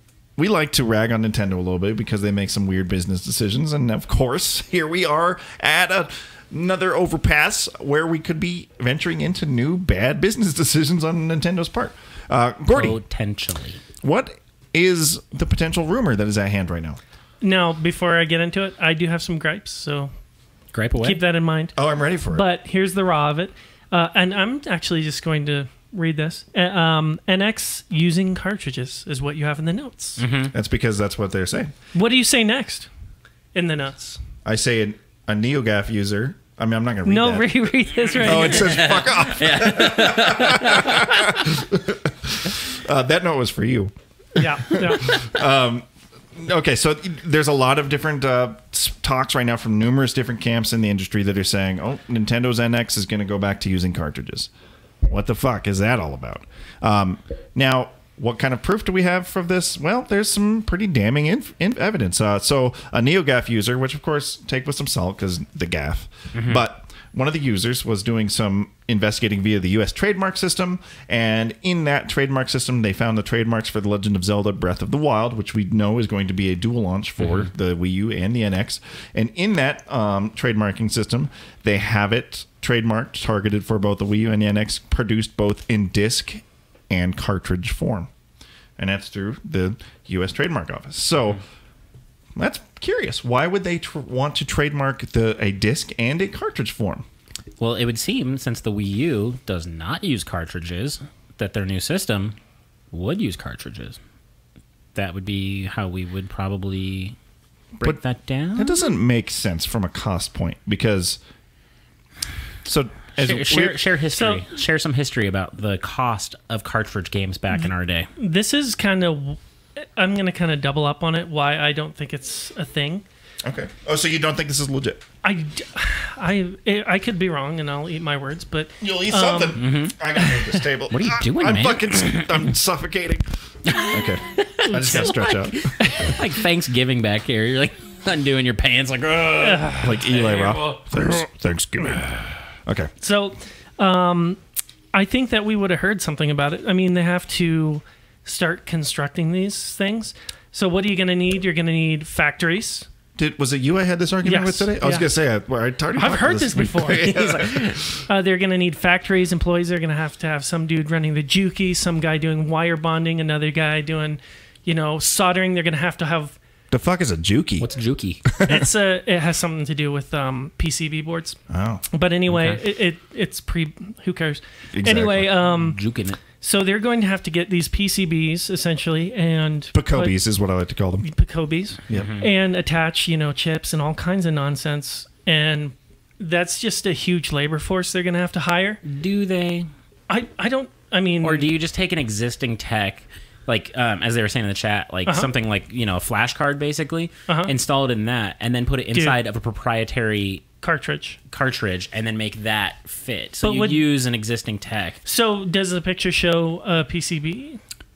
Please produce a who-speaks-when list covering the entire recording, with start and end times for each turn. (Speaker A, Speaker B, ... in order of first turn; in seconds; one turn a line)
Speaker A: 0.4-13.0
Speaker B: 12.7-13.8
Speaker A: 14.0-17.0
Speaker C: 17.4-20.1
Speaker B: 20.7-21.2
Speaker C: 21.0-21.8
Speaker A: 21.8-22.4
Speaker C: 22.3-30.2
Speaker B: 30.2-30.5
Speaker A: 30.5-31.7
Speaker C: 31.9-32.9
Speaker C: 33.5-34.2
Speaker A: 34.5-54.5
Speaker C: 37.0-38.9
Speaker B: 38.2-41.2
Speaker C: 44.4-45.2
Speaker A: 55.0-88.1
Speaker B: 66.3-66.7
Speaker B: 77.2-77.5
Speaker A: 88.8-91.4
Speaker A: 92.4-97.0
Speaker B: 97.6-102.4
Speaker B: 102.9-104.0
Speaker B: 105.0-107.2
Speaker B: 107.8-108.8
Speaker A: 108.5-111.2
Speaker A: 112.7-113.8
Speaker B: 113.2-118.1
Speaker C: 114.1-114.5
Speaker C: 117.6-123.0
Speaker A: 123.4-125.0
Speaker C: 125.2-129.6
Speaker A: 128.8-135.7
Speaker B: 129.6-132.5
Speaker B: 133.7-140.8
Speaker C: 134.7-135.2
Speaker C: 139.4-140.0
Speaker A: 139.8-142.9
Speaker C: 143.0-144.4
Speaker C: 144.9-152.9
Speaker A: 153.2-158.0
Speaker C: 154.2-155.1
Speaker C: 155.9-157.2
Speaker B: 156.8-157.9
Speaker C: 158.1-166.4
Speaker A: 166.7-167.7
Speaker B: 167.6-168.2
Speaker A: 168.2-168.7
Speaker C: 168.5-171.4
Speaker A: 171.5-171.8
Speaker C: 171.9-175.8
Speaker B: 172.2-172.6
Speaker A: 174.7-175.3
Speaker B: 175.4-176.2
Speaker C: 176.3-180.2
Speaker A: 179.7-181.1
Speaker C: 181.0-188.8
Speaker B: 181.9-182.3
Speaker B: 188.8-189.7
Speaker C: 190.1-191.5
Speaker B: 191.2-200.4
Speaker C: 195.1-195.3
Speaker C: 197.3-197.5
Speaker C: 200.6-201.2
Speaker B: 201.3-205.0
Speaker C: 203.4-203.8
Speaker C: 205.1-207.6